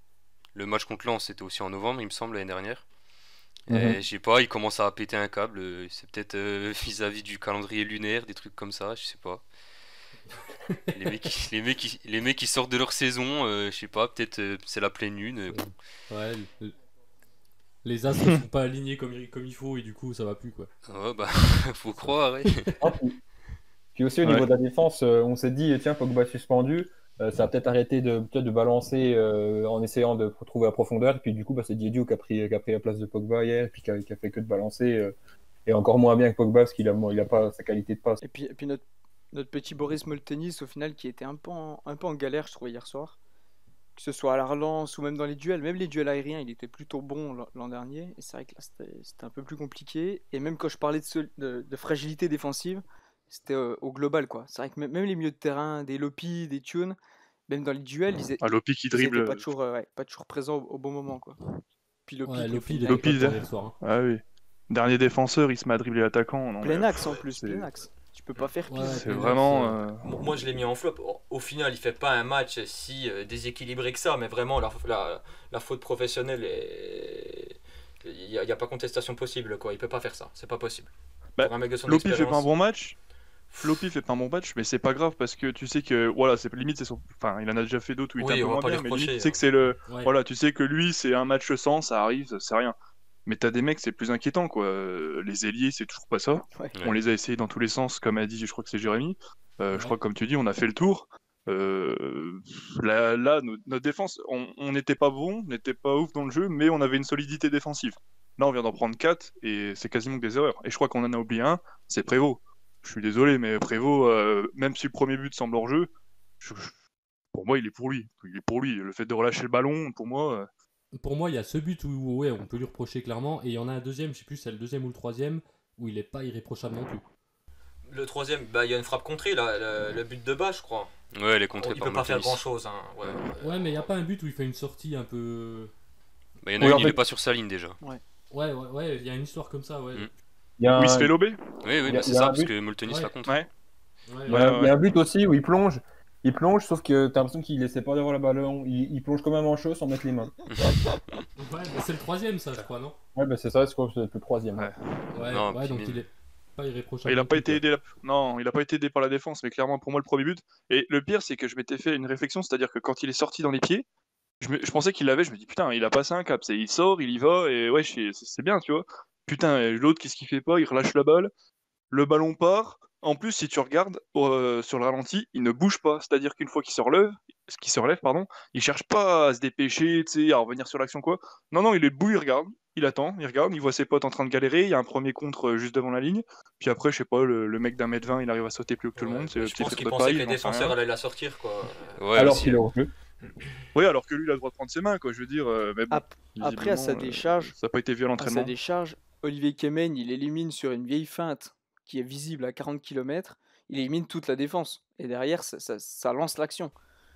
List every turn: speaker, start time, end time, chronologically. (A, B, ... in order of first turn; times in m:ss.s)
0:00.5-0:02.8 A
0:03.7-0:09.4 A
0:03.7-0:04.0 B
0:10.9-0:15.6 A
0:15.5-0:16.7 C
0:17.8-0:20.7 C
0:20.9-0:22.7 A
0:22.5-0:22.8 C
0:22.8-0:23.2 B
0:24.0-0:35.2 B
0:35.7-0:38.2 B
0:38.2-0:43.2 D
0:44.0-0:57.0 D
0:57.5-1:01.4 D
0:58.4-0:59.5 E
1:02.1-1:03.1 D
1:02.3-1:03.8 C
1:02.9-1:07.7 E
1:06.6-1:09.1 D
1:08.7-1:09.8 C
1:08.8-1:10.0 E
1:10.0-1:22.5 F
1:21.4-1:23.0 E
1:23.6-1:32.8 E
1:28.2-1:29.4 F
1:33.3-1:56.8 E
1:39.7-1:40.0 C
1:57.3-2:00.5 E
2:01.0-2:07.0 C
2:07.8-2:10.9 F
2:11.1-2:12.4 A
2:11.6-2:13.9 F
2:13.4-2:15.7 C
2:16.4-2:17.8 A
2:16.6-2:17.0 B
2:18.3-2:20.1 C
2:20.6-2:21.1 B
2:20.8-2:21.6 E
2:21.6-2:23.4 A
2:21.8-2:22.5 B
2:22.8-2:23.1 C
2:24.1-2:24.5 C
2:24.3-2:24.8 E
2:24.3-2:30.3 B
2:30.5-2:31.2 A
2:31.4-2:33.0 C
2:33.2-2:34.7 B
2:34.6-2:35.1 E
2:35.1-2:37.6 C
2:35.2-2:36.1 A
2:37.1-2:43.8 E
2:44.4-2:51.3 E
2:51.9-3:10.8 E
3:09.0-3:12.0 F
3:12.0-3:12.6 A
3:12.2-3:12.9 B
3:13.7-3:18.5 E
3:15.9-3:17.6 D
3:18.2-3:26.7 D